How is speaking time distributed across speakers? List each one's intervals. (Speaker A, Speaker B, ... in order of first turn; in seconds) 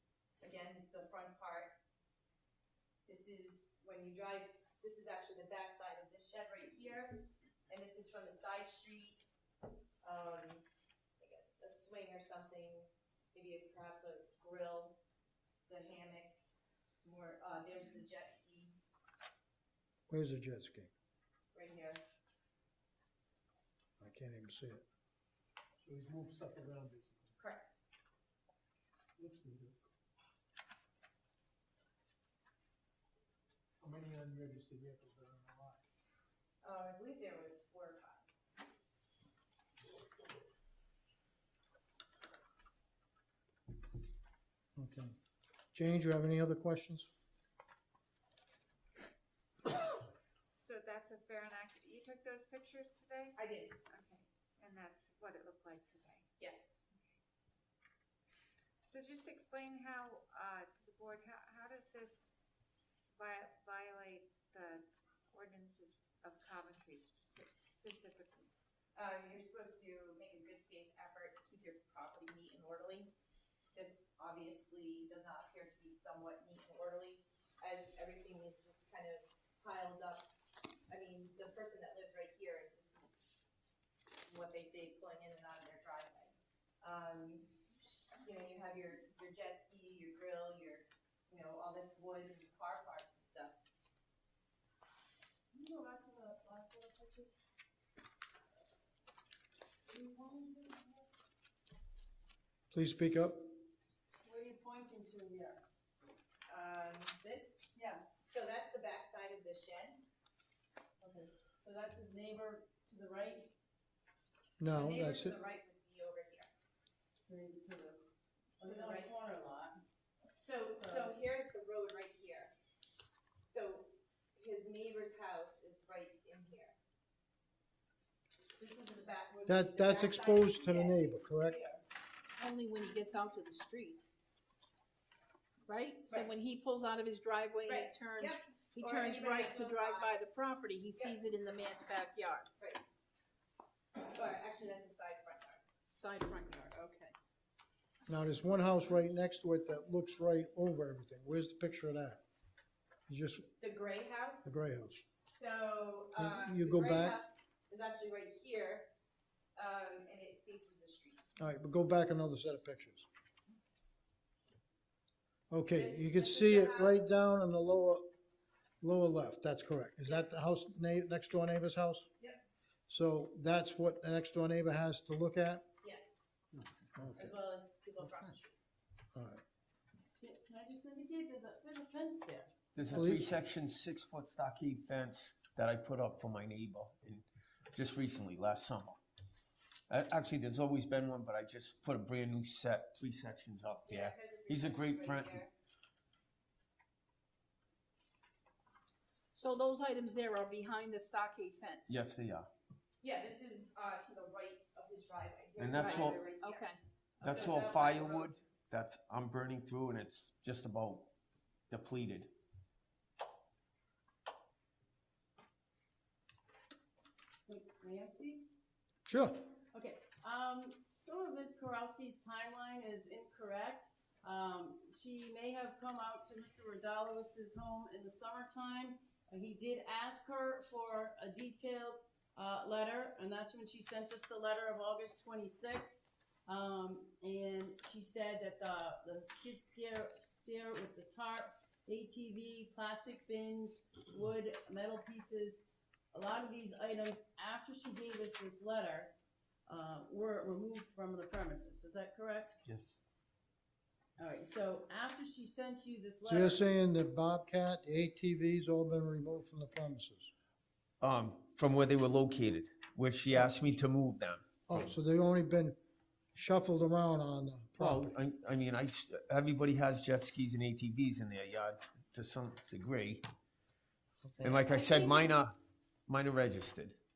Speaker A: 0.4-1.8, 3.1-9.2, 10.0-10.7, 11.2-15.0, 15.7-16.4, 17.0-18.8, 21.5-22.0, 27.4-27.8, 36.6-38.2, 53.4-53.8, 56.4-56.9, 69.0-73.1, 73.8-80.3, 80.9-83.4, 84.3-87.5, 88.2-93.6, 106.5-107.7, 108.3-110.0, 114.7-116.5, 118.6-119.1, 120.4-122.5, 123.5-126.8, 128.6-131.8, 137.7-140.2, 144.0-145.6, 153.6-154.6, 155.3-158.9, 159.6-161.2, 165.7-167.2, 175.8-176.2, 177.2-178.6, 193.9-195.5, 203.0-206.7, 207.2-208.3
Speaker B: 20.1-20.9, 24.0-24.8, 25.9-27.1, 29.2-29.7, 33.9-35.2, 44.8-45.1, 45.7-47.1, 102.7-103.5, 114.6-115.4, 129.5-131.6, 148.1-152.2, 153.1-153.5, 154.4-155.0, 156.2-157.2, 161.4-163.1, 165.5-168.1, 168.8-172.1, 172.9-175.7, 176.9-177.3, 179.1-179.4, 182.9-183.3, 219.1-219.4, 256.3-260.3, 264.7-265.8, 266.4-268.1
Speaker C: 25.9-27.0, 29.2-29.6, 33.9-35.7
Speaker D: 50.6-56.3, 58.8-62.3, 63.1-68.5
Speaker E: 95.5-97.4, 99.9-101.1, 104.2-105.7, 107.7-108.2, 111.0-113.5, 117.3-118.0, 118.6-119.8, 120.7-121.2, 180.2-182.5, 217.5-218.5, 219.7-249.1, 249.7-252.6, 254.2-256.6, 274.5-275.4
Speaker F: 132.4-134.0, 135.7-142.5, 145.9-147.2, 199.3-202.0, 205.8-206.8
Speaker G: 182.8-189.0, 189.9-195.4, 201.8-202.5, 205.6-206.3, 207.2-211.1, 211.7-212.3, 252.7-253.0, 261.0-264.8, 267.8-273.2, 274.4-275.6, 276.1-277.0